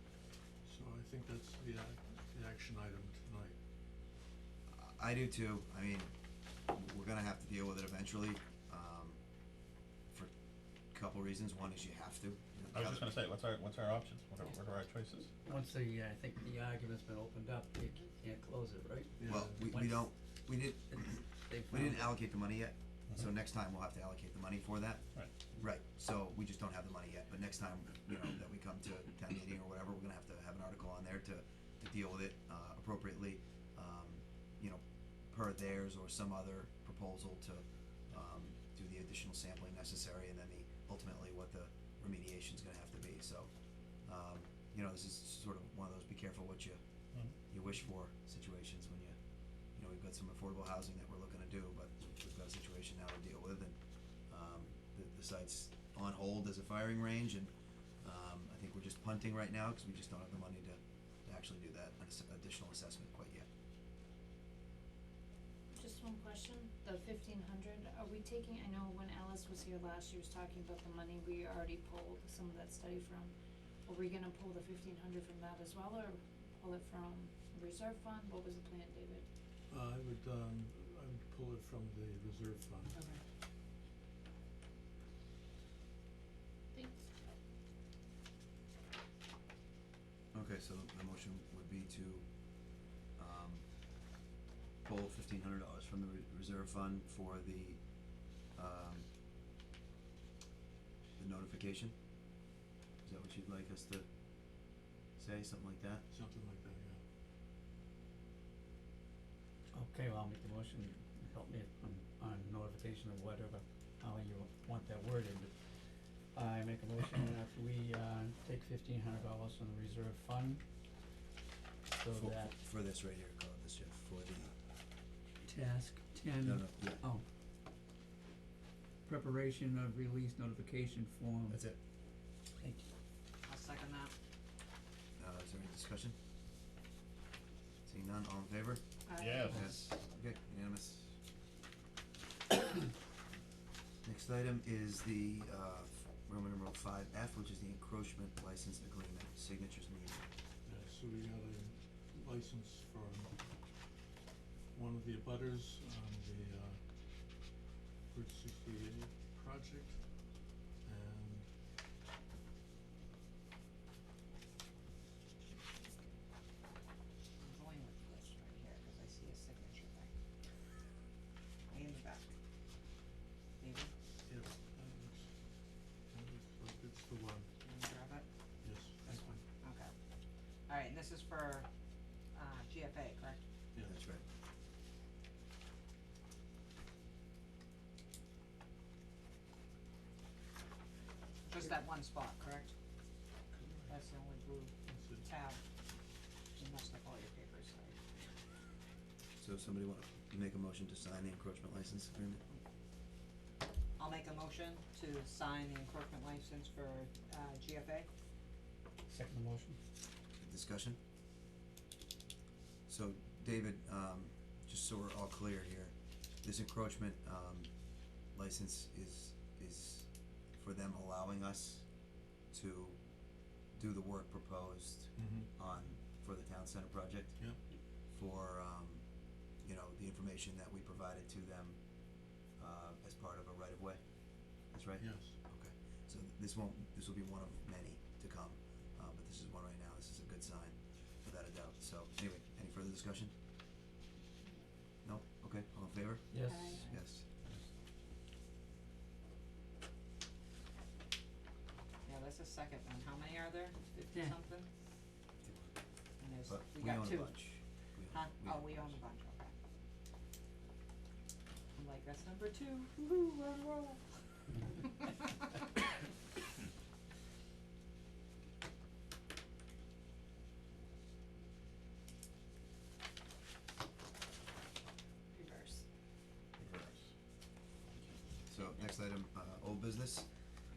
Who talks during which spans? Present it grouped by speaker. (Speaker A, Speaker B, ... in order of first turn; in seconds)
Speaker A: 0.6-3.6, 19.2-19.6, 79.7-83.0, 106.1-107.0, 150.6-153.4, 154.7-156.8, 158.1-160.0, 160.8-161.5, 174.3-175.3, 176.1-177.5, 178.6-179.4, 193.5-194.0, 194.8-195.2, 225.2-225.5, 235.0-235.4
Speaker B: 4.7-6.1, 6.7-9.2, 10.9-13.1, 19.2-46.8, 47.5-57.5, 58.0-63.5, 90.3-93.6, 94.8-99.0, 101.2-101.9, 103.0-106.0, 122.1-124.5, 126.4-127.0, 131.5-131.8, 135.2-136.2, 137.8-141.1, 144.0-150.3, 183.8-184.2, 199.4-202.4, 210.4-211.0, 212.9-221.9, 222.5-229.0, 229.6-243.3, 245.0-247.6, 255.4-255.8, 256.3-259.0, 278.5-280.3
Speaker C: 12.7-15.3, 139.2-139.6, 276.6-277.1
Speaker D: 15.4-20.1, 20.9-22.2, 109.7-115.7, 116.3-120.6, 122.0-122.5, 125.4-127.2, 129.1-131.6, 132.6-132.8, 209.1-209.8, 246.3-246.8, 254.1-254.3
Speaker E: 65.7-79.2
Speaker F: 82.9-83.2, 133.4-134.1, 139.1-139.6, 167.4-170.1, 171.7-172.3, 173.6-173.9, 177.6-179.9, 180.7-181.7, 182.3-183.4, 191.4-192.7, 193.9-195.6, 196.6-197.9, 204.0-208.1, 246.5-247.0, 252.0-254.7, 256.2-257.5, 258.1-259.5, 261.7-265.2, 275.3-275.8, 278.5-278.8